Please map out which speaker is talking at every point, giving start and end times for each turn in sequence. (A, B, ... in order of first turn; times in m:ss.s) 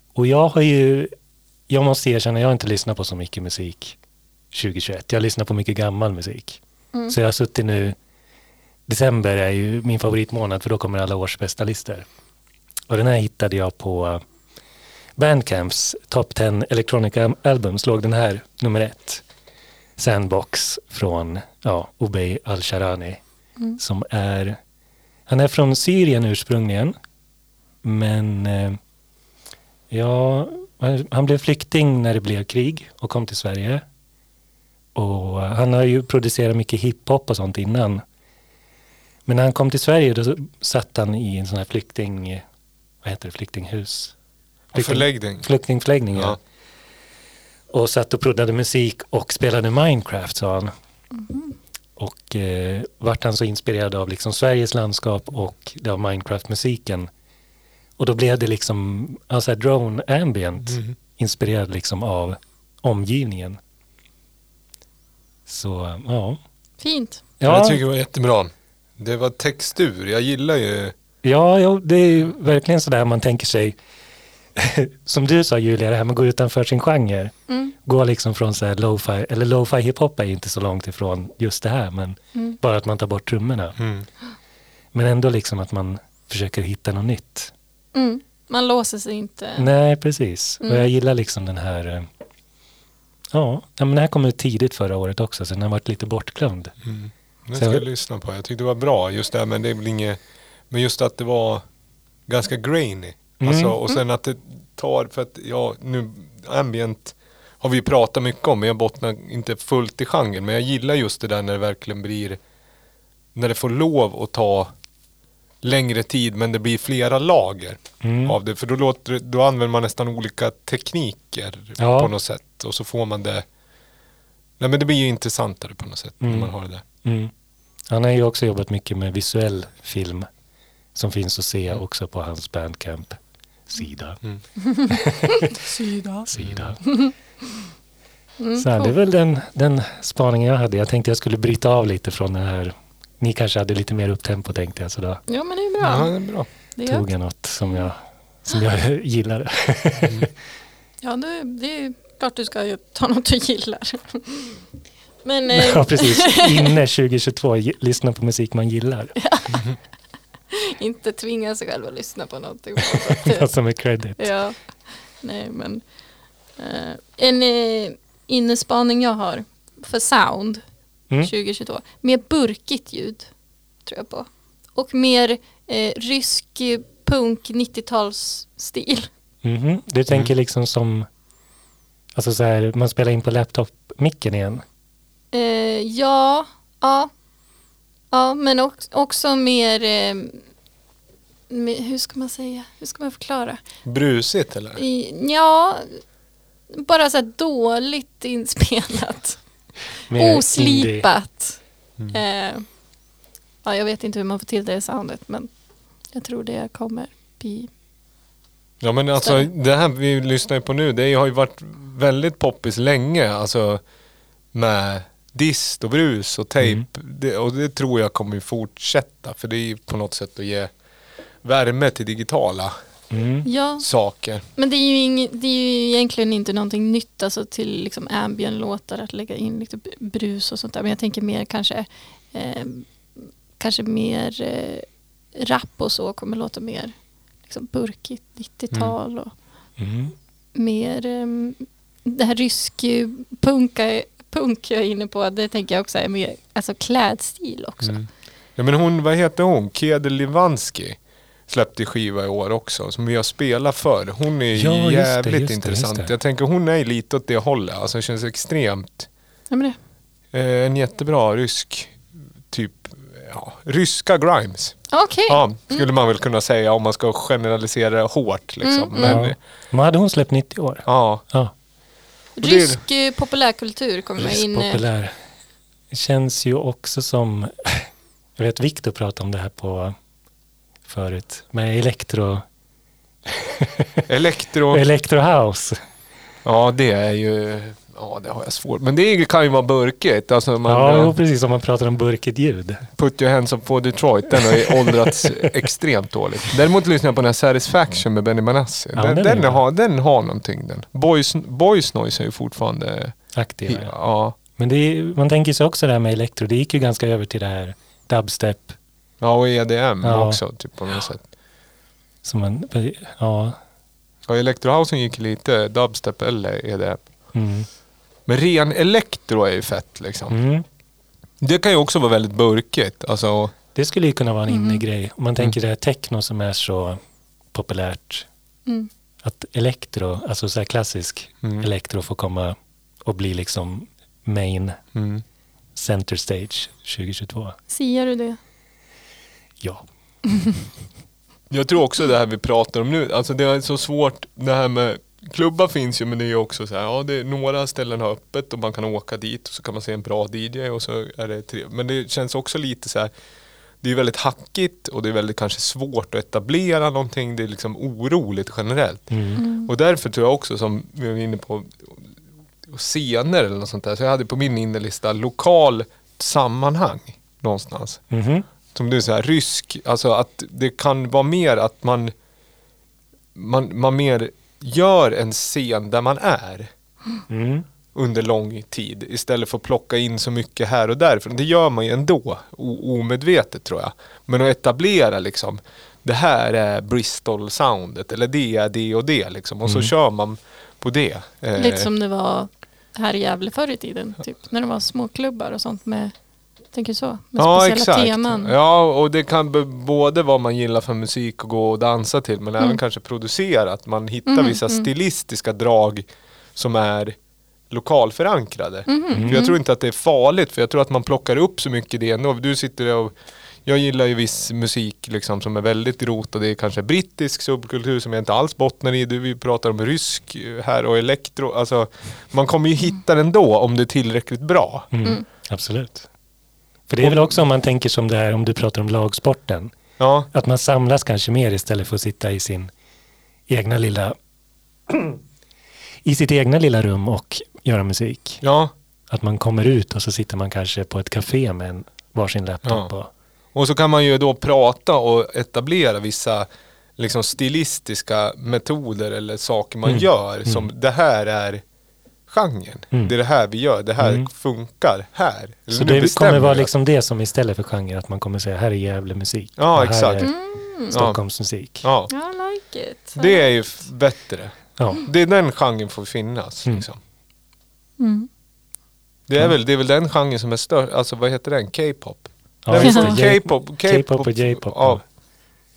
0:00.1-0:01.1 A
0:01.7-0:04.0 A
0:04.5-0:08.0 A
0:08.9-0:12.1 A
0:12.9-0:14.2 A
0:15.2-0:19.2 A
0:20.0-0:23.2 A
0:23.8-0:24.6 A
0:25.3-0:27.0 A
0:27.8-0:28.8 A
0:29.9-0:33.8 A
0:34.9-0:38.0 A
0:39.3-0:42.4 A
0:43.0-0:44.1 A
0:44.7-0:45.5 B
0:44.7-0:46.4 A
0:47.7-0:50.7 A
0:51.1-0:51.5 C
0:52.0-0:57.1 A
0:58.0-1:03.6 A
1:00.6-1:00.9 B
1:05.5-1:06.4 A
1:06.8-1:07.2 C
1:07.4-1:07.8 A
1:07.4-1:10.9 B
1:11.2-1:13.8 A
1:14.6-1:17.3 A
1:17.5-1:17.7 C
1:17.8-1:23.8 A
1:23.8-1:24.0 B
1:24.9-1:27.5 A
1:27.9-1:29.7 C
1:29.6-1:32.1 A
1:33.3-1:36.7 A
1:36.8-1:40.2 B
1:37.6-1:37.8 A
1:40.7-1:41.6 B
1:42.3-1:52.4 B
1:43.4-1:43.8 A
1:53.3-1:54.7 B
1:55.6-2:03.4 B
1:58.0-1:58.4 A
2:01.8-2:02.1 A
2:04.6-2:06.8 B
2:06.2-2:07.3 A
2:07.9-2:10.3 A
2:10.9-2:13.2 A
2:13.7-2:14.2 A
2:14.6-2:16.2 C
2:14.9-2:15.6 A
2:16.3-2:16.8 A
2:16.4-2:16.7 B
2:16.8-2:17.1 C
2:18.4-2:18.9 C
2:18.6-2:25.2 A
2:25.3-2:26.2 C
2:25.8-2:26.5 B
2:26.8-2:27.1 C
2:26.8-2:30.3 A
2:31.0-2:34.6 C
2:35.2-2:36.7 C
2:35.5-2:39.1 A
2:39.2-2:39.6 C
2:40.5-2:43.5 C
2:42.8-2:44.3 A
2:44.2-2:44.6 C
2:45.2-2:45.8 C
2:46.6-2:50.6 C
2:51.2-2:53.3 C
2:53.8-2:59.1 C
2:59.4-3:01.1 A
3:02.1-3:04.6 A
3:05.3-3:07.1 C
3:08.1-3:10.4 C
3:11.5-3:13.6 C
3:13.8-3:14.8 B
3:14.8-3:16.0 C
3:16.7-3:19.4 C
3:20.1-3:21.1 A
3:20.1-3:21.6 C
3:22.1-3:22.6 C
3:23.6-3:25.5 C
3:26.1-3:27.7 C
3:28.8-3:33.8 B
3:29.2-3:29.5 C
3:34.5-3:40.7 B
3:41.4-3:42.7 B
3:43.1-3:43.5 A
3:43.4-3:43.8 C
3:43.8-3:44.4 B
3:44.6-3:56.9 C
3:57.5-3:59.3 C
3:59.8-4:00.1 A
4:00.5-4:08.0 C
4:07.8-4:19.1 B
4:14.5-4:16.1 A
4:19.5-4:19.8 C
4:20.3-4:24.8 B
4:24.9-4:25.9 C
4:25.3-4:29.4 B
4:28.6-4:29.2 C
4:29.0-4:31.5 A
4:30.8-4:31.2 B
4:32.4-4:32.8 B
4:32.4-4:34.8 C
4:34.2-4:35.1 A
4:35.9-4:40.0 A
4:40.8-4:42.4 A
4:43.3-4:44.0 A
4:44.1-4:44.8 B
4:44.7-4:45.8 A
4:46.4-4:51.1 B
4:50.6-4:52.9 A
4:53.0-5:04.4 B
4:54.4-4:55.5 A
4:58.9-4:59.6 A
5:03.3-5:03.9 A
5:04.6-5:08.8 A
5:09.2-5:11.2 B
5:10.0-5:10.4 A
5:12.2-5:13.6 A
5:14.3-5:17.0 B
5:17.3-5:17.7 A
5:18.3-5:20.4 B
5:20.3-5:20.6 A
5:21.4-5:23.5 B
5:23.7-5:27.0 A
5:24.5-5:24.8 C
5:27.5-5:28.3 A
5:29.2-5:34.8 A
5:31.4-5:31.7 B
5:34.9-5:35.2 B
5:35.8-5:37.6 A
5:37.7-5:38.4 C
5:41.5-5:53.1 B
5:53.8-6:02.0 B
5:59.1-5:59.4 A
5:59.4-5:59.7 C
6:02.6-6:08.0 B
6:08.1-6:08.4 A
6:08.7-6:12.1 B
6:13.3-6:16.7 B
6:17.3-6:17.6 A
6:17.9-6:31.9 B
6:29.6-6:29.9 A
6:31.6-6:36.1 C
6:36.7-6:38.5 C
6:37.4-6:47.2 B
6:44.3-6:44.9 C
6:47.7-6:53.1 B
6:48.9-6:49.6 C
6:49.1-6:49.4 A
6:53.6-7:04.9 B
7:04.9-7:06.1 A
7:06.9-7:09.7 A
7:07.0-7:07.4 B
7:10.0-7:10.3 B
7:10.3-7:12.7 A
7:13.5-7:14.2 A
7:14.9-7:15.2 A
7:16.0-7:18.4 A
7:18.4-7:18.7 B
7:19.1-7:23.1 A
7:22.6-7:22.9 B
7:23.5-7:31.6 B
7:29.8-7:30.7 A
7:32.3-7:36.7 B
7:34.0-7:34.3 A
7:35.7-7:40.4 A
7:39.6-7:40.3 B
7:40.2-7:40.9 C
7:40.9-7:41.8 A
7:40.9-7:41.2 B
7:41.7-7:42.1 B
7:42.1-7:43.5 C
7:43.2-7:47.0 B
7:44.8-7:45.0 A
7:48.0-7:48.3 C
7:49.3-7:55.0 B
7:52.6-7:55.0 A
7:52.8-7:53.1 C